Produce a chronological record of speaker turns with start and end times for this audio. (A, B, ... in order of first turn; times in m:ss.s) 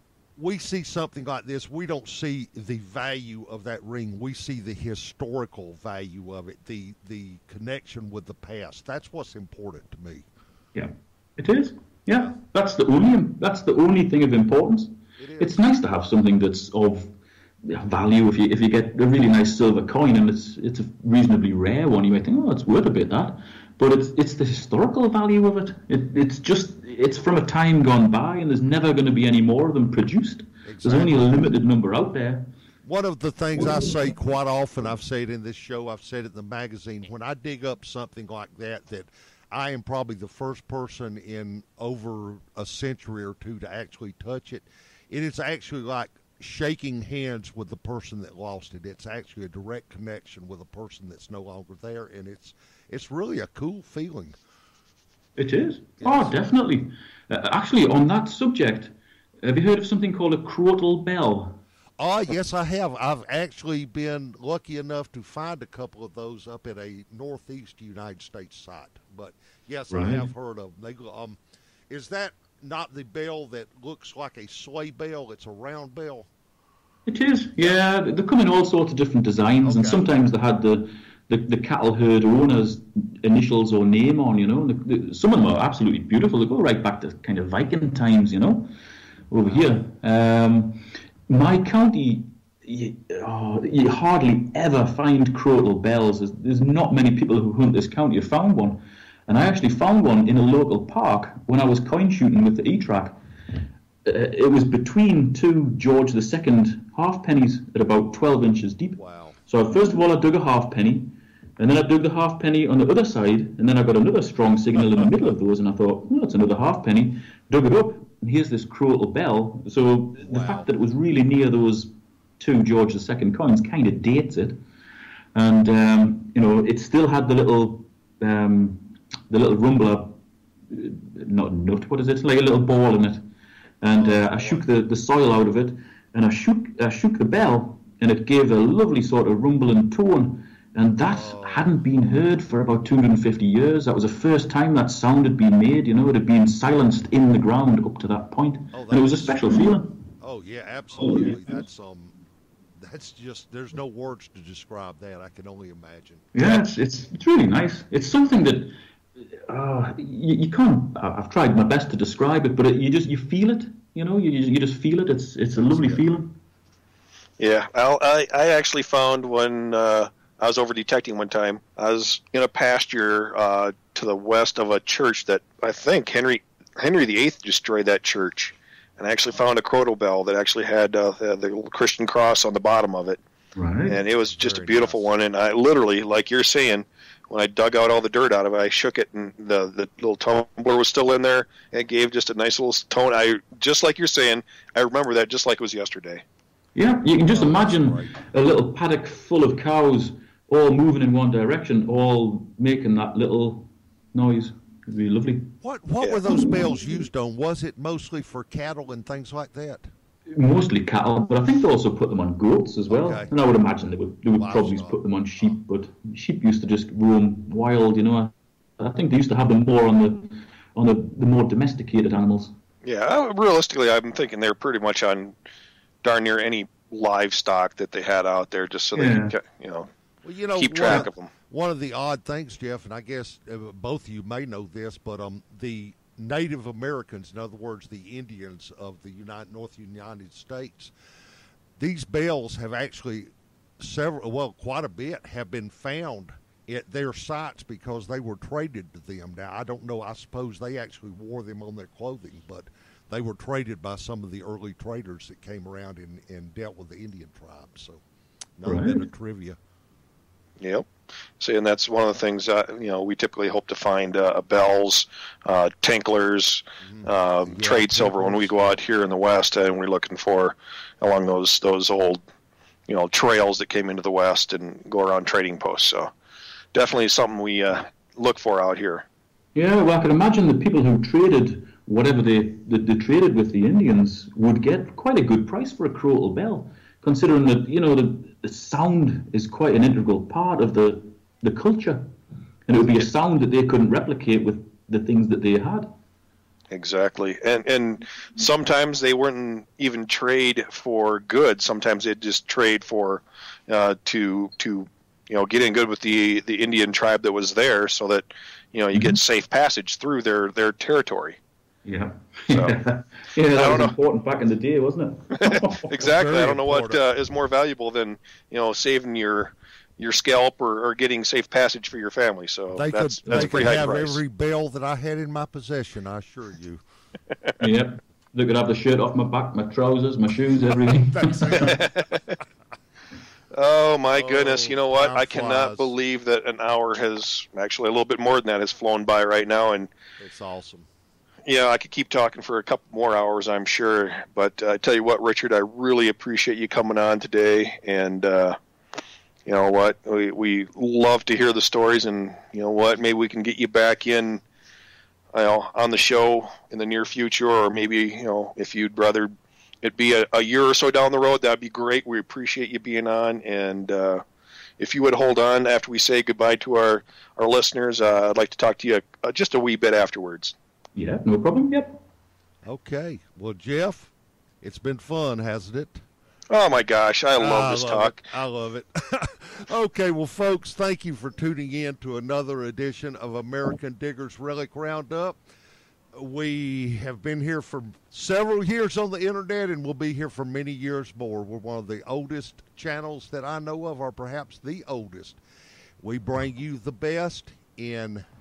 0:00.4-0:10.3 A
0:10.8-0:17.1 B
0:15.2-0:15.6 A
0:17.6-0:32.5 B
0:30.6-0:31.3 A
0:32.8-0:54.4 A
0:55.4-1:01.6 B
0:56.0-0:56.3 A
1:02.0-1:11.4 A
1:09.9-1:10.3 B
1:11.9-1:16.3 A
1:17.1-1:28.7 B
1:19.6-1:20.2 A
1:29.3-1:43.2 B
1:44.0-2:04.6 B
1:49.0-1:49.4 A
2:00.2-2:00.7 A
2:05.4-2:10.2 B
2:10.7-2:13.2 B
2:13.8-2:30.0 B
2:13.9-2:14.7 A
2:21.0-2:21.7 A
2:28.7-2:32.2 A
2:31.0-2:31.5 B
2:32.8-2:36.7 A
2:36.3-2:38.8 B
2:39.5-2:46.4 B
2:45.6-2:46.0 A
2:47.4-3:03.2 C
3:03.6-3:04.0 B
3:03.9-3:16.2 C
3:04.0-3:05.1 A
3:16.8-3:25.5 B
3:17.2-3:18.2 A
3:25.6-3:29.9 A
3:26.3-3:26.8 B
3:30.3-3:42.5 B
3:32.9-3:33.4 A
3:34.4-3:35.6 A
3:42.8-3:45.4 C
3:46.0-3:49.9 C
3:49.0-3:49.4 B
3:50.2-4:00.9 A
3:50.6-3:51.3 C
4:01.8-4:18.0 A
4:18.6-4:19.6 A
4:18.6-4:19.1 B
4:20.6-4:20.9 C
4:21.4-4:32.2 C
4:26.8-4:28.8 A
4:32.9-4:36.1 C
4:36.7-4:39.0 C
4:39.6-4:52.1 B
4:52.7-4:55.9 B
4:56.7-5:11.4 C
5:08.9-5:09.2 B
5:11.9-5:15.9 B
5:13.5-5:13.9 C
5:15.4-5:24.2 C
5:16.0-5:17.0 A
5:22.7-5:26.8 A
5:23.2-5:23.7 B
5:27.6-5:31.7 B
5:30.9-5:32.0 A
5:31.5-5:32.2 C
5:33.5-5:39.9 C
5:34.1-5:35.9 A
5:40.2-5:40.9 A
5:41.5-5:48.6 C
5:49.5-5:54.4 C
5:55.3-5:59.3 C
5:59.8-6:04.2 C
6:04.8-6:10.5 C
6:11.0-6:12.0 B
6:12.6-6:14.1 A
6:14.6-6:16.0 A
6:16.5-6:18.2 C
6:17.4-6:25.4 A
6:26.1-6:35.4 A
6:36.0-6:38.3 A